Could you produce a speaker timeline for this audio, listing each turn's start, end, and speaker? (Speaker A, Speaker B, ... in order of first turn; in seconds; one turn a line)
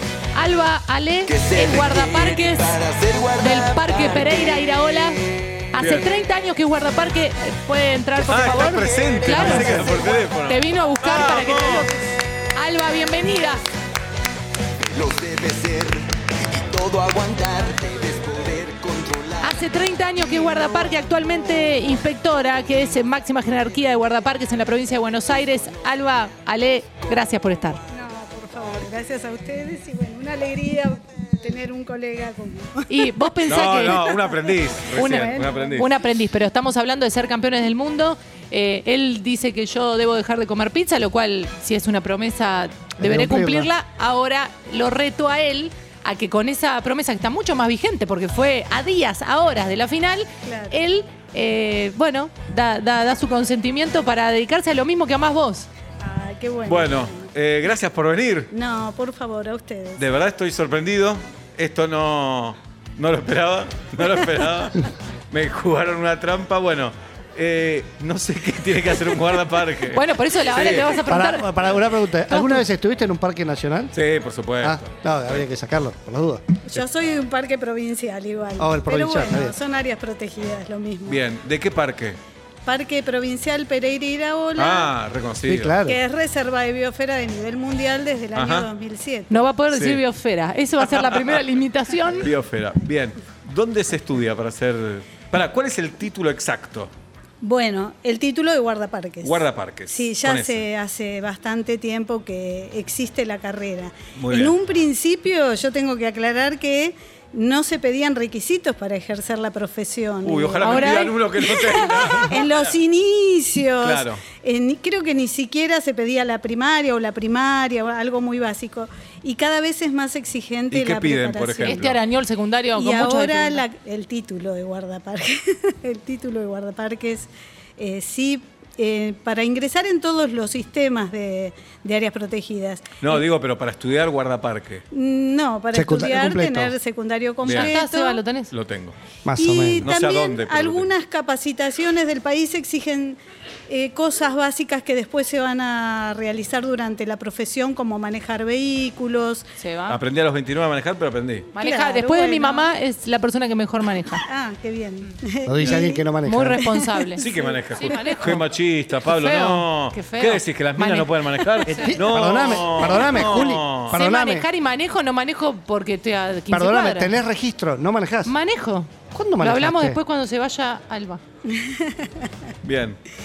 Speaker A: 0.3-2.8
Speaker B: 1.3-5.1
Speaker A: 3.4-5.2
Speaker A: 5.7-11.9
Speaker C: 5.8-6.1
Speaker C: 8.2-11.9
Speaker B: 8.9-10.4
Speaker A: 12.6-13.6
Speaker B: 14.9-19.7
Speaker A: 19.4-27.8
Speaker B: 20.4-20.9
Speaker D: 27.9-33.5
Speaker A: 32.9-34.2
Speaker C: 33.5-36.0
Speaker D: 34.0-34.3
Speaker A: 34.9-55.7
Speaker D: 35.1-35.8
Speaker E: 43.0-43.7
Speaker D: 50.4-50.8
Speaker D: 56.0-57.3
Speaker C: 56.7-58.5
Speaker D: 58.5-60.0
Speaker C: 60.0-71.1
Speaker A: 69.9-71.7
Speaker E: 71.1-74.0
Speaker A: 72.3-72.6
Speaker C: 73.9-75.4
Speaker E: 74.6-76.6
Speaker D: 76.7-81.2
Speaker E: 78.6-79.6
Speaker C: 81.1-82.2
Speaker D: 82.7-84.9
Speaker C: 84.6-85.8
Speaker E: 85.5-86.0
Speaker D: 85.8-89.5
Speaker C: 88.3-88.7
Speaker A: 89.3-92.3
Speaker C: 89.7-90.0
Speaker C: 90.8-91.4
Speaker C: 92.2-96.9
Speaker D: 97.4-121.8
Speaker C: 99.2-100.6
Speaker C: 104.2-104.6
Speaker C: 110.2-112.8
Speaker A: 110.6-111.2
Speaker A: 111.7-112.2
Speaker C: 113.8-114.2
Speaker C: 120.7-122.0
Speaker A: 121.6-123.6
Speaker D: 122.8-133.2
Speaker C: 133.0-134.8
Speaker D: 134.9-138.2
Speaker E: 135.7-136.8
Speaker C: 137.4-137.7
Speaker A: 137.5-138.5
Speaker C: 138.5-138.9
Speaker E: 139.2-139.9
Speaker D: 139.4-149.5
Speaker C: 139.8-140.9
Speaker A: 149.6-150.0
Speaker C: 149.9-151.5
Speaker A: 151.6-154.3
Speaker D: 151.6-152.7
Speaker D: 154.2-156.1
Speaker E: 155.5-156.7
Speaker A: 156.2-158.4
Speaker D: 156.6-158.3
Speaker C: 157.2-164.0
Speaker A: 159.0-162.0
Speaker E: 161.8-164.5
Speaker A: 162.8-163.2
Speaker A: 163.9-167.1
Speaker E: 166.5-168.3
Speaker A: 168.2-171.2
Speaker E: 169.1-170.0
Speaker D: 171.5-172.3
Speaker C: 172.6-173.0